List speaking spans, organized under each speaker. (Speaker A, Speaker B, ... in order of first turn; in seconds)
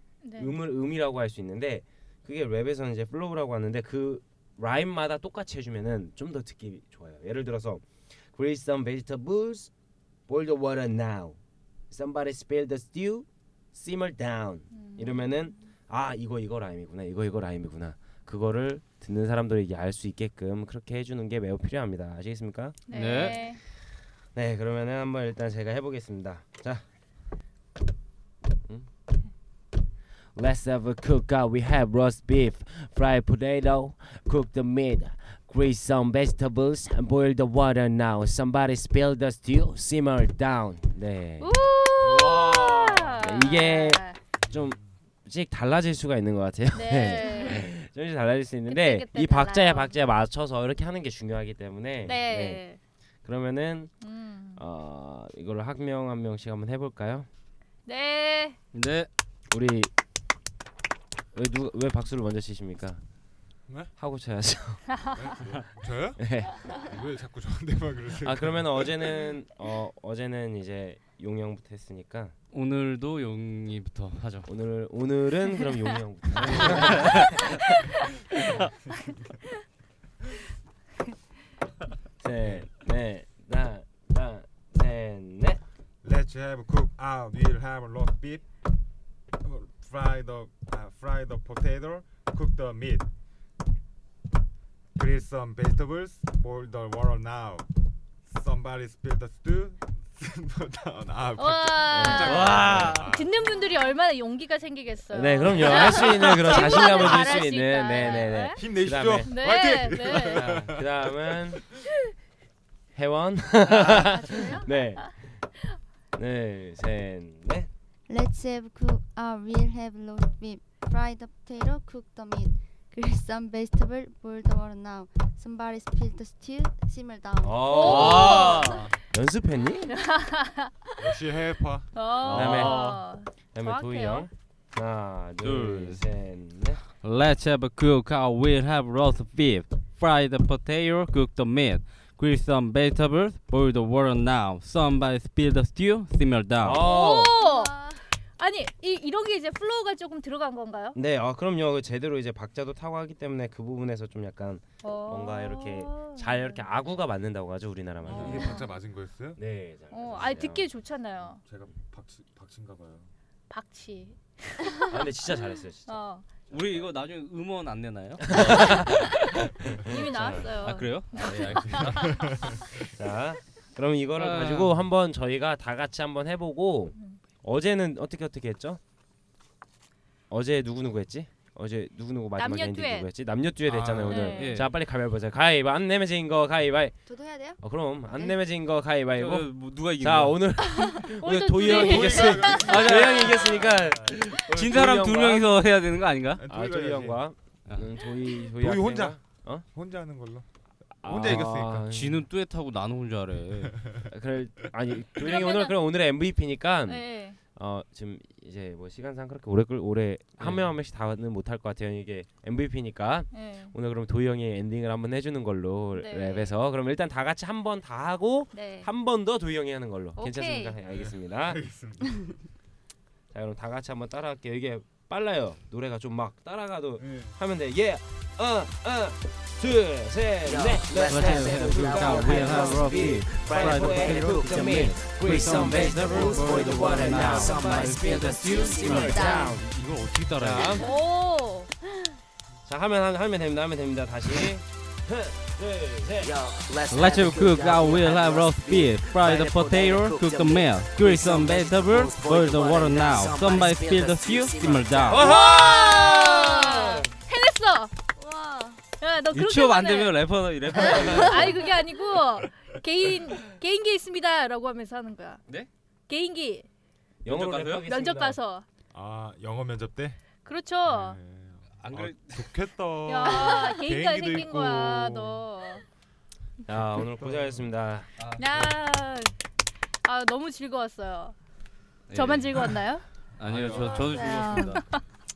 Speaker A: 0.2-0.6, 14.7-15.3, 22.9-23.6, 41.4-44.2, 46.7-47.7, 48.7-50.0, 52.0-52.8, 54.0-54.6, 57.9-58.6, 101.4-108.6, 109.2-110.5, 127.7-128.9, 129.9-130.7, 131.9-134.3, 146.8-151.0, 154.8-156.7, 158.1-158.7, 159.9-161.4, 163.5-164.9, 165.9-166.3, 169.8-172.5, 176.9-177.2, 182.4-183.1, 184.1-184.6, 191.2-192.6, 205.2-205.8, 206.9-207.4, 213.3-213.7, 216.0-216.6, 218.5-218.9, 220.2-220.8, 240.8-241.7, 255.2-257.9, 258.9-260.2, 260.8-265.4, 266.1-266.7, 267.9-268.7, 270.4-271.2, 273.1-275.8, 278.4-279.4, 280.0-281.4, 282.1-283.1, 284.5-285.0
Speaker B: 0.4-9.7, 10.3-11.4, 11.9-23.5, 24.4-26.8, 30.4-41.5, 43.1-52.6, 53.2-53.9, 54.6-57.3, 59.5-59.9, 61.3-63.0, 64.0-65.1, 66.2-66.9, 68.2-72.3, 74.5-77.8, 82.2-85.6, 101.9-102.4, 105.1-109.5, 110.1-111.7, 112.9-115.4, 116.2-117.7, 127.4-129.9, 132.3-133.0, 133.5-136.8, 146.6-147.3, 150.9-158.6, 159.4-160.7, 164.9-166.0, 166.5-166.9, 168.3-170.5, 171.2-171.6, 172.9-178.8, 180.3-187.0, 187.6-195.5, 196.5-199.7, 201.0-202.3, 204.1-221.6, 223.3-239.7, 240.4-240.8, 242.7-246.4, 255.1-256.9, 260.8-261.6, 267.2-268.4, 276.7-278.1
Speaker C: 22.9-23.4, 42.0-43.1, 58.7-59.1, 72.5-74.5, 76.5-77.4, 102.2-103.1, 127.8-128.9, 132.2-133.0, 135.4-136.0, 137.0-146.8, 166.5-168.9, 170.4-172.1, 174.2-174.8, 184.2-184.7, 189.1-190.5, 191.7-193.6, 194.1-196.4, 197.7-197.9, 201.9-203.8, 210.4-210.7, 231.1-240.8, 246.9-255.3, 259.3-261.6, 267.2-267.9, 271.8-272.6, 278.2-278.6, 282.1-282.7, 283.4-284.8
Speaker D: 63.7-63.9, 65.2-69.1, 82.4-82.7, 86.0-88.5, 89.4-93.1, 95.0-97.7, 98.3-103.4, 105.6-107.3, 108.4-111.2, 131.0-131.9, 158.1-159.4, 161.4-163.1, 171.9-172.8, 183.6-184.3, 191.6-194.1, 196.3-197.3, 198.5-199.2, 199.7-200.5, 201.0-201.9, 220.9-222.3, 227.0-227.4, 268.9-270.2, 270.9-275.4, 276.8-277.7, 283.4-284.4
Speaker E: 113.8-114.8, 118.1-128.2, 147.1-148.0, 187.1-188.4, 190.7-191.1, 238.6-239.6, 258.2-258.8, 284.0-284.8
Speaker F: 230.4-239.5, 246.2-255.3